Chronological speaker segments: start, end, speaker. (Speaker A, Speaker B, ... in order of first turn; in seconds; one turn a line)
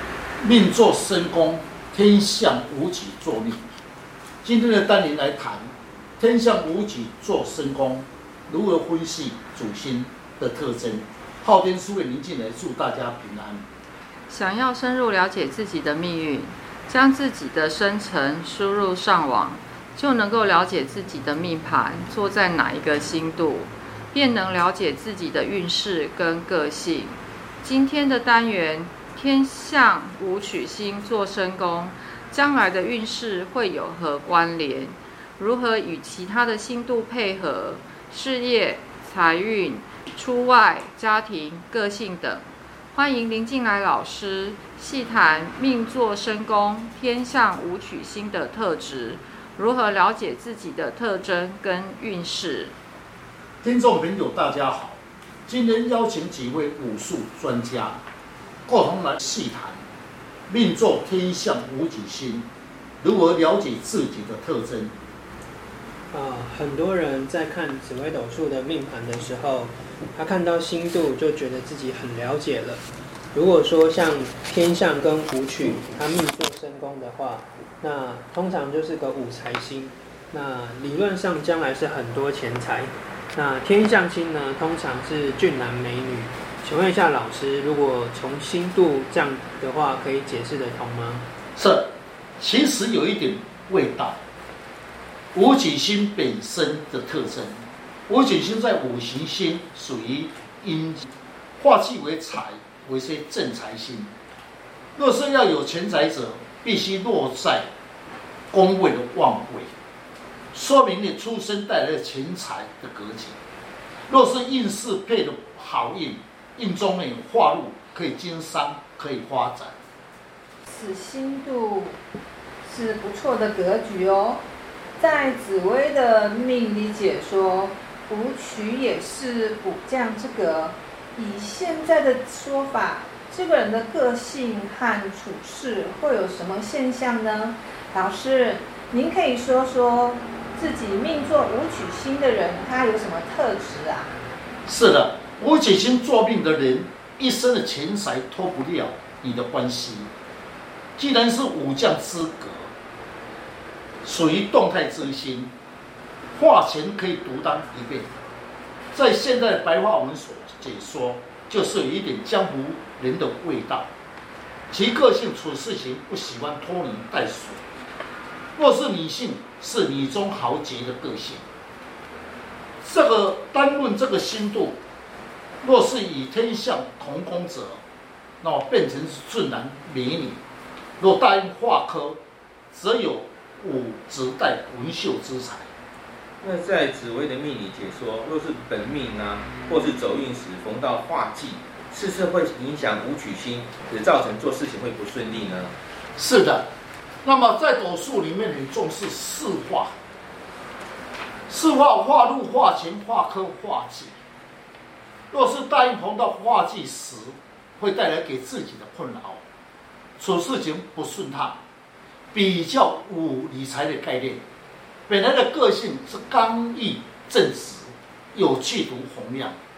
Speaker A: 0.4-3.6
Speaker A: 4.4-13.7
Speaker B: 14.3-52.7
Speaker A: 53.6-58.0
Speaker A: 58.7-59.8
Speaker A: 60.5-62.5
Speaker A: 63.0-64.9
Speaker C: 66.1-72.8
Speaker C: 73.3-91.3
Speaker A: 91.6-91.9
Speaker A: 92.4-94.2
Speaker A: 95.3-101.1
Speaker A: 101.6-104.1
Speaker A: 105.0-107.7
Speaker A: 108.5-109.7
Speaker A: 110.5-113.4
Speaker A: 114.1-119.8
Speaker D: 120.7-122.0
Speaker D: 122.7-124.4
Speaker D: 125.0-144.1
Speaker A: 144.7-150.1
Speaker A: 151.0-152.7
Speaker A: 154.0-155.5
Speaker A: 156.3-158.1
Speaker A: 158.9-163.9
Speaker A: 164.7-167.6
Speaker A: 168.6-171.4
Speaker A: 172.8-174.8
Speaker A: 175.6-177.8
Speaker A: 178.4-180.4
Speaker A: 181.0-182.2
Speaker A: 182.7-185.7
Speaker E: 186.4-195.8
Speaker A: 196.2-196.7
Speaker A: 197.2-199.9
Speaker A: 201.5-204.2
Speaker A: 205.3-209.4
Speaker A: 210.2-211.6
Speaker A: 212.3-214.4
Speaker A: 215.1-219.6